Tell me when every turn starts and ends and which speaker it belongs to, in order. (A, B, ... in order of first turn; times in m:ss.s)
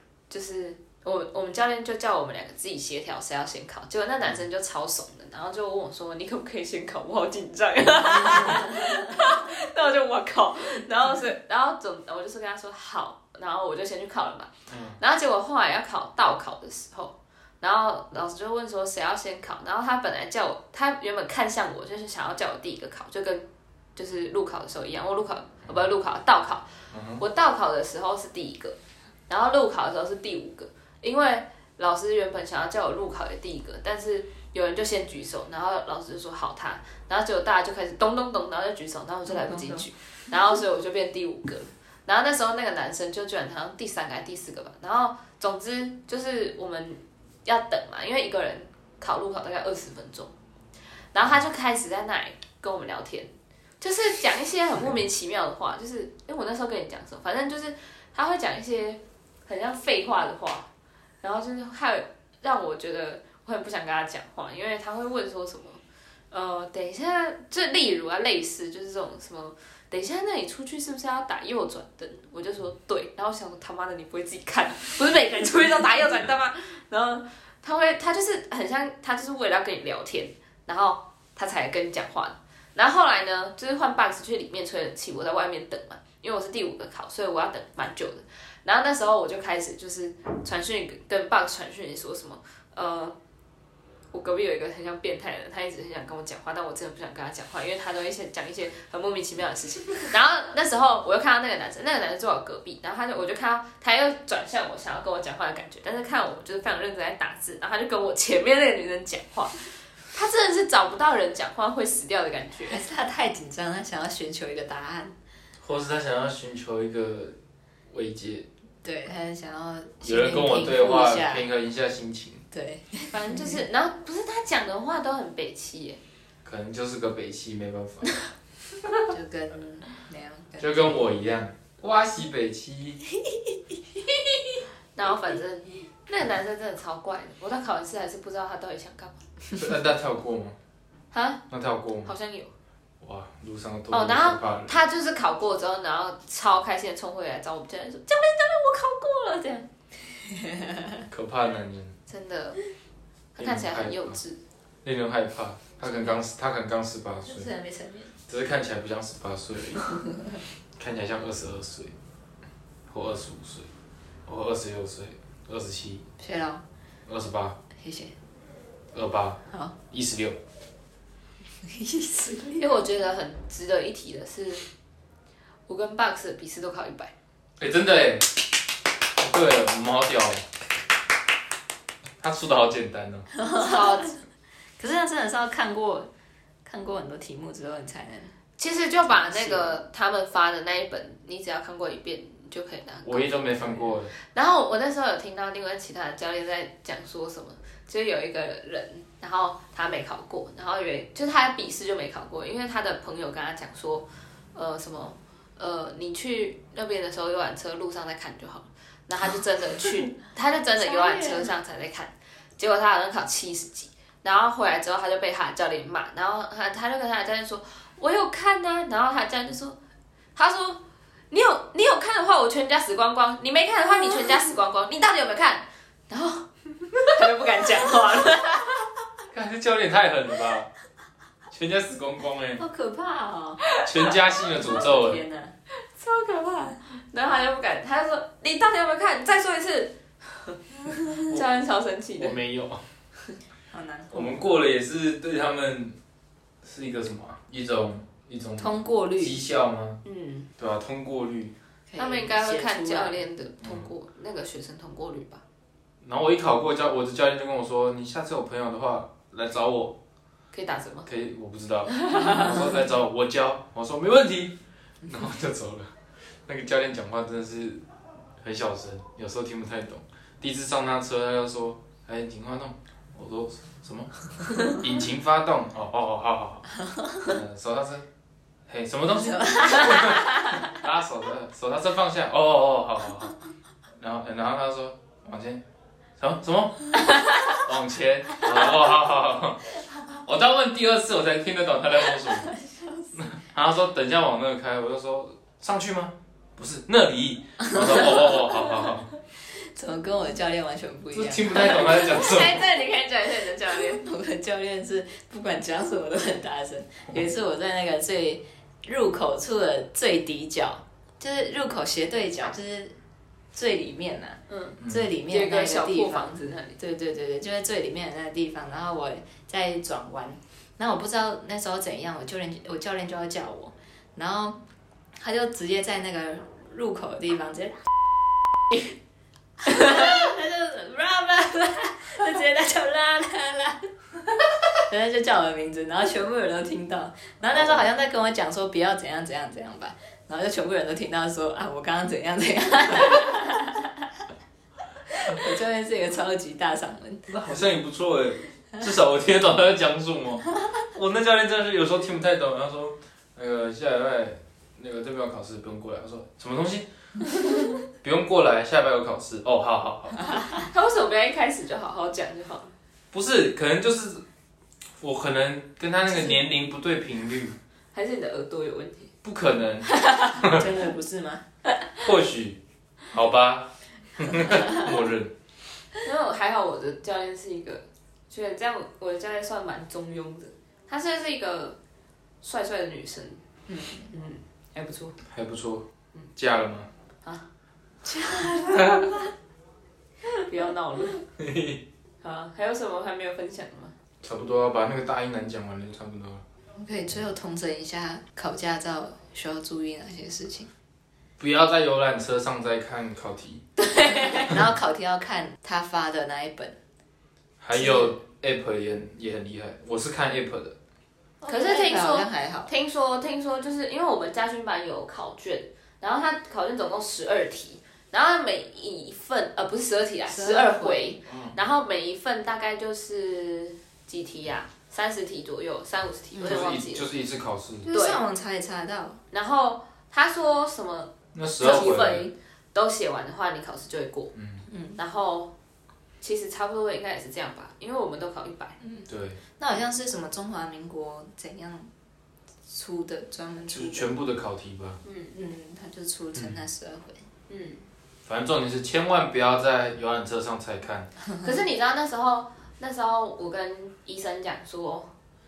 0:00.3-0:28.8 A
0:14.7-0:15.0 B
0:26.9-0:27.2 B
0:29.3-0:50.3 A
0:39.3-0:39.9 C
0:51.1-1:00.7 A
1:01.2-1:33.2 A
1:34.1-1:52.8 A
1:52.6-1:55.1 C
1:55.6-1:57.4 B
1:57.9-1:58.5 B
1:58.8-2:01.5 C
2:00.0-2:02.4 B
2:02.5-2:03.6 C
2:03.1-2:06.0 A
2:06.4-2:08.1 B
2:09.1-2:11.1 C
2:10.6-2:13.0 B
2:14.5-2:19.3 A
2:19.6-2:20.6 B
2:21.1-2:21.4 A
2:21.5-2:22.1 B
2:22.0-2:22.5 A
2:23.0-2:24.8 B
2:23.9-2:29.7 A
2:30.3-2:31.0 C
2:31.1-2:32.0 B
2:32.1-2:32.6 A
2:33.4-2:34.4 A
2:33.4-2:34.2 B
2:34.8-2:37.5 B
2:37.3-2:38.1 C
2:38.3-2:40.0 B
2:40.8-2:41.9 B
2:42.9-2:43.7 B
2:44.3-2:46.0 B
2:46.2-2:46.6 C
2:47.1-2:47.6 B
2:47.8-2:48.2 C
2:48.9-2:50.4 B
2:49.5-2:49.8 C
2:51.6-2:52.6 C
2:52.5-2:54.6 A
2:55.7-2:57.1 A
2:57.6-2:58.6 B
2:59.2-3:00.5 B
3:02.2-3:03.3 B
3:03.4-3:04.1 C
3:03.5-3:04.2 A
3:04.8-3:06.1 C
3:06.6-3:08.3 C
3:08.6-3:39.8 A
3:09.1-3:09.7 C
3:13.0-3:14.1 B
3:30.8-3:31.5 C
3:40.4-3:48.9 A
3:49.3-3:50.7 B
3:51.5-3:52.6 B
3:52.6-3:53.6 C
3:53.7-3:54.2 A
3:53.8-3:55.2 B
3:54.6-3:55.5 C
3:55.8-4:02.4 A
4:02.2-4:02.8 B
4:03.7-4:04.4 C
4:04.1-4:06.0 B
4:06.6-4:10.0 B
4:08.6-4:09.4 C
4:10.0-4:10.5 A
4:10.6-4:11.5 B
4:11.9-4:13.2 C
4:12.0-4:15.4 A
4:13.6-4:13.9 B
4:16.0-4:20.0 B
4:20.5-4:21.1 A
4:21.1-4:25.9 B
4:21.9-4:22.6 A
4:26.5-4:27.8 B
4:28.4-4:36.7 B
4:36.9-4:37.2 C
4:37.2-4:38.0 B
4:38.7-4:43.4 B
4:39.3-4:40.7 C
4:44.0-4:45.6 B
4:46.2-4:49.6 B
4:50.2-4:52.5 B
4:52.5-4:53.1 C
4:53.1-4:59.1 B
4:57.6-4:58.6 C
4:59.5-5:02.0 C
5:01.1-5:02.7 B
5:01.7-5:04.0 A
5:03.9-5:13.0 C
5:13.5-5:24.6 C
5:14.5-5:16.8 A
5:14.8-5:15.1 B
5:25.2-5:27.8 C
5:29.6-5:33.9 C
5:34.9-5:43.9 C
5:37.5-5:37.9 B
5:45.1-5:47.2 C
5:47.3-6:00.2 B
6:00.5-6:02.8 A
6:03.1-6:04.2 B
6:05.0-6:07.6 B
6:06.1-6:06.4 C
6:07.9-6:09.1 A
6:09.2-6:10.7 B
6:09.9-6:10.3 A
6:10.4-6:11.4 C
6:12.0-6:15.3 B
6:16.0-6:21.8 A
6:22.4-6:23.4 A
6:23.7-6:24.1 C
6:24.1-6:25.2 A
6:25.3-6:26.9 B
6:28.0-6:29.3 C
6:28.6-6:29.2 B
6:30.4-6:31.2 A
6:31.4-6:31.8 B
6:32.2-6:33.9 A
6:34.2-6:36.4 B
6:36.8-6:40.7 C
6:41.4-6:43.6 B
6:43.8-6:44.5 A
6:44.1-6:46.8 C
6:47.6-6:50.8 B
6:47.7-6:48.1 C
6:51.4-7:07.1 A
6:51.4-6:52.7 C
7:00.3-7:01.2 C
7:01.3-7:01.6 B
7:06.3-7:06.6 C
7:06.4-7:07.9 B
7:07.9-7:09.2 C
7:07.9-7:08.2 A
7:09.3-7:14.3 A
7:11.3-7:12.2 B
7:14.4-7:14.6 B
7:14.7-7:15.0 C
7:15.0-7:15.5 A
7:16.2-7:18.8 A
7:18.8-7:21.9 C
7:19.1-7:19.4 B
7:22.7-7:24.1 C
7:23.7-7:25.0 B
7:25.0-7:25.3 A
7:25.3-7:27.3 C
7:27.5-7:27.9 A
7:28.3-7:31.1 B
7:31.4-7:35.1 A